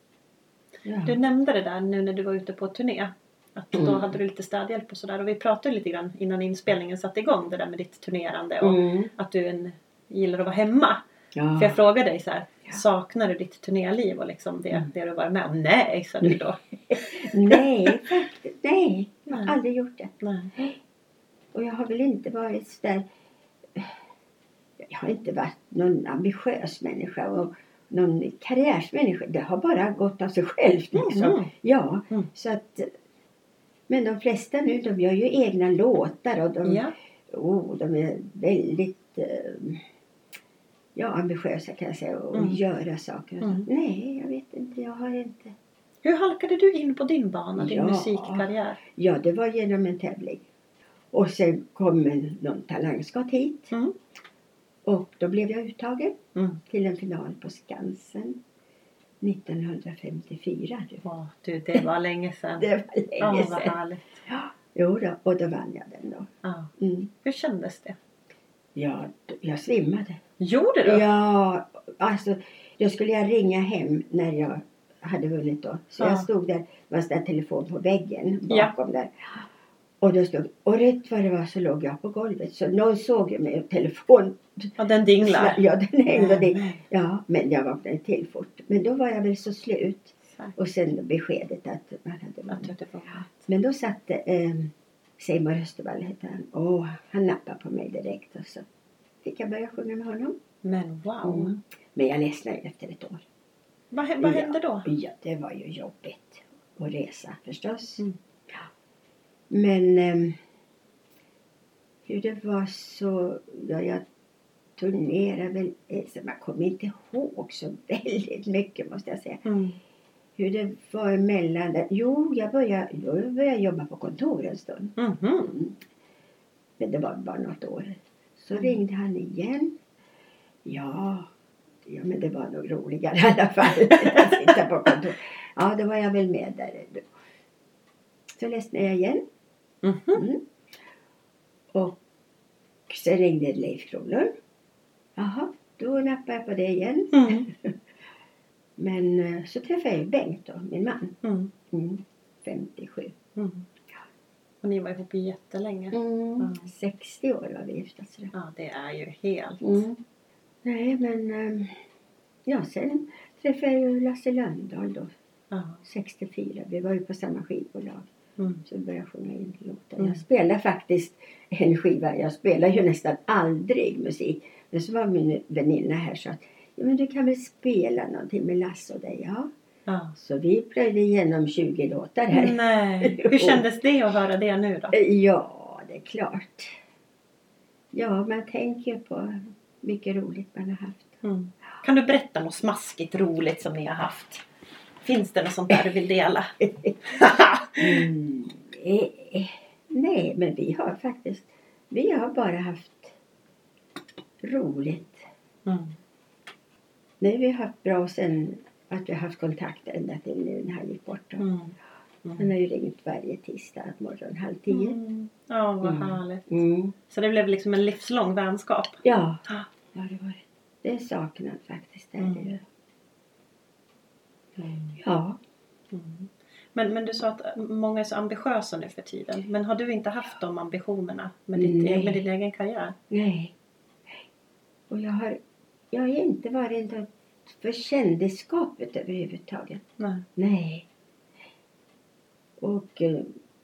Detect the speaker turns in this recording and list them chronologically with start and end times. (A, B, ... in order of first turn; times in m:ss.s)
0:00.8-0:01.2 A
0:01.0-0:11.0 B
0:03.7-0:04.0 A
0:08.6-0:09.1 A
0:11.3-0:11.8 A
0:11.5-0:16.6 B
0:16.9-0:20.8 A
0:19.3-0:19.6 B
0:20.2-0:20.5 B
0:21.5-0:23.1 A
0:24.8-0:32.9 A
0:30.9-0:31.5 B
0:33.9-0:39.8 A
0:36.6-0:36.9 B
0:40.9-0:45.5 A
0:42.3-0:42.6 B
0:43.4-0:43.7 B
0:46.0-0:48.8 B
0:47.6-0:50.4 A
0:51.1-0:53.7 A
0:54.8-0:58.4 A
0:56.3-0:56.6 B
0:59.2-1:01.0 A
1:01.0-1:04.2 B
1:02.6-1:03.8 A
1:04.3-1:07.1 A
1:06.4-1:08.0 B
1:08.7-1:10.2 A
1:10.4-1:11.1 B
1:10.8-1:19.4 A
1:16.0-1:16.3 B
1:18.5-1:18.7 B
1:20.0-1:32.7 A
1:24.8-1:26.8 B
1:32.5-1:33.5 B
1:33.3-1:38.6 A
1:39.2-1:40.4 A
1:40.6-1:41.6 B
1:41.2-1:43.2 A
1:43.9-1:44.9 B
1:44.2-1:48.6 A
1:49.5-1:50.4 A
1:52.0-1:54.0 A
1:54.8-1:59.4 A
1:59.4-1:59.8 B
2:00.4-2:04.9 A
2:05.0-2:05.6 B
2:05.4-2:05.8 A
2:06.8-2:09.8 A
2:10.6-2:11.3 A
2:11.8-2:17.1 A
2:13.8-2:14.5 B
2:18.3-2:19.2 A
2:19.8-2:20.2 B
2:20.1-2:20.4 A
2:21.7-2:22.0 A
2:22.9-2:24.3 A
2:25.2-2:27.7 A
2:27.1-2:27.5 B
2:28.8-2:31.2 A
2:31.2-2:31.5 B
2:31.7-2:33.1 A
2:33.4-2:33.7 B
2:34.6-2:36.7 B
2:35.9-2:38.3 A
2:38.3-2:39.8 B
2:39.6-2:40.0 A
2:40.6-2:41.8 A
2:42.4-2:45.1 A
2:45.5-2:45.8 B
2:45.8-2:48.1 A
2:48.4-2:48.6 B
2:48.6-2:59.5 A
2:59.9-3:00.1 B
3:00.2-3:03.6 A
3:02.3-3:05.0 B
3:04.9-3:06.8 A
3:07.9-3:11.2 A
3:11.2-3:14.4 B
3:15.0-3:16.5 B
3:16.6-3:16.9 A
3:17.0-3:18.0 B
3:17.8-3:23.1 A
3:24.4-3:25.2 A
3:25.6-3:26.0 B
3:27.2-3:31.4 A
3:31.4-3:32.5 B
3:32.4-3:35.0 A
3:34.7-3:36.4 B
3:35.8-3:36.9 A
3:37.1-3:39.7 B
3:39.0-3:39.4 A
3:39.9-3:42.6 A
3:42.2-3:42.5 B
3:44.6-3:45.0 B
3:45.0-3:45.4 A
3:45.9-3:53.0 B
3:51.6-3:52.2 A
3:53.1-3:53.5 A
3:54.9-3:55.4 A
3:55.9-3:59.8 A
4:00.0-4:00.2 B
4:00.4-4:00.8 A
4:02.6-4:03.3 A